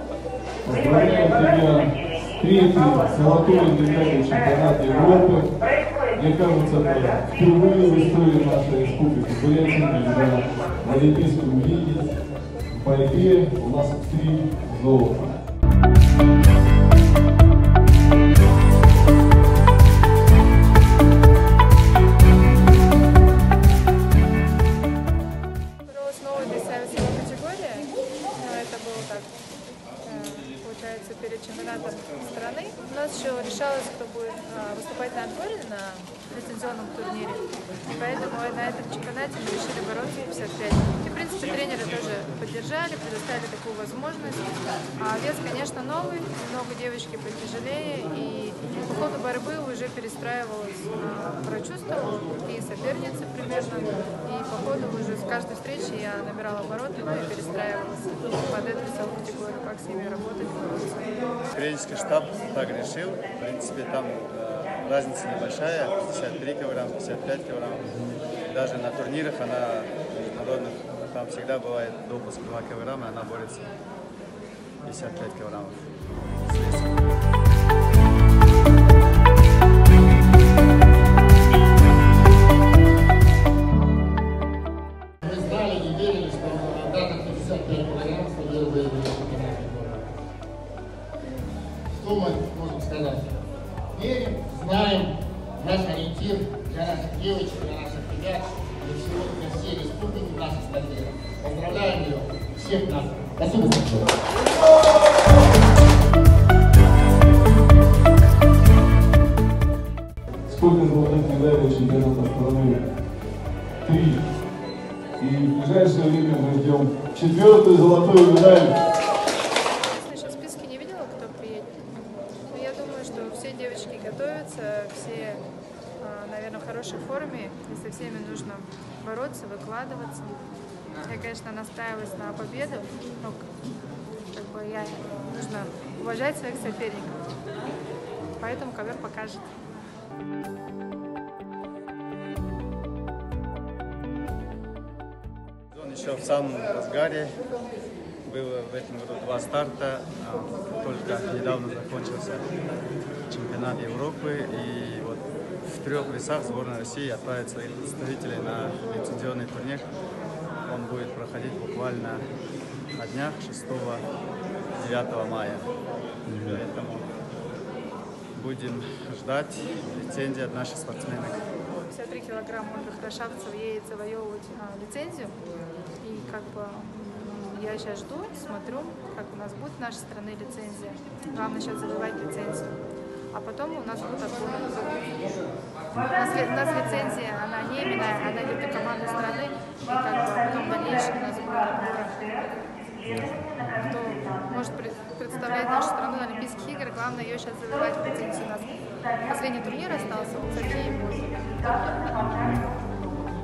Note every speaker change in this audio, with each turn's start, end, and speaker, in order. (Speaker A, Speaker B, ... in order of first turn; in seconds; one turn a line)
Speaker A: 0.6-5.5
Speaker A: 6.1-12.2
Speaker A: 12.7-15.3
Speaker B: 25.8-29.3
Speaker B: 30.0-61.2
Speaker C: 61.5-73.7
Speaker C: 74.8-77.0
Speaker D: 85.2-90.1
Speaker D: 91.9-93.3
Speaker D: 93.9-104.1
Speaker A: 110.5-112.9
Speaker A: 113.8-114.2
Speaker A: 115.2-118.8
Speaker B: 119.9-121.8
Speaker B: 122.5-125.4
Speaker B: 126.0-130.4
Speaker B: 131.0-133.5
Speaker B: 134.1-137.3
Speaker B: 138.4-139.4
Speaker C: 145.7-147.4
Speaker C: 148.2-152.4
Speaker C: 153.3-159.9
Speaker C: 160.6-162.2
Speaker C: 162.9-164.0
Speaker C: 164.7-165.7
Speaker C: 166.3-167.1
Speaker C: 168.3-171.5
Speaker B: 171.8-175.4
Speaker B: 176.0-182.7
Speaker B: 183.3-185.1
Speaker B: 185.9-192.3
Speaker B: 193.7-202.2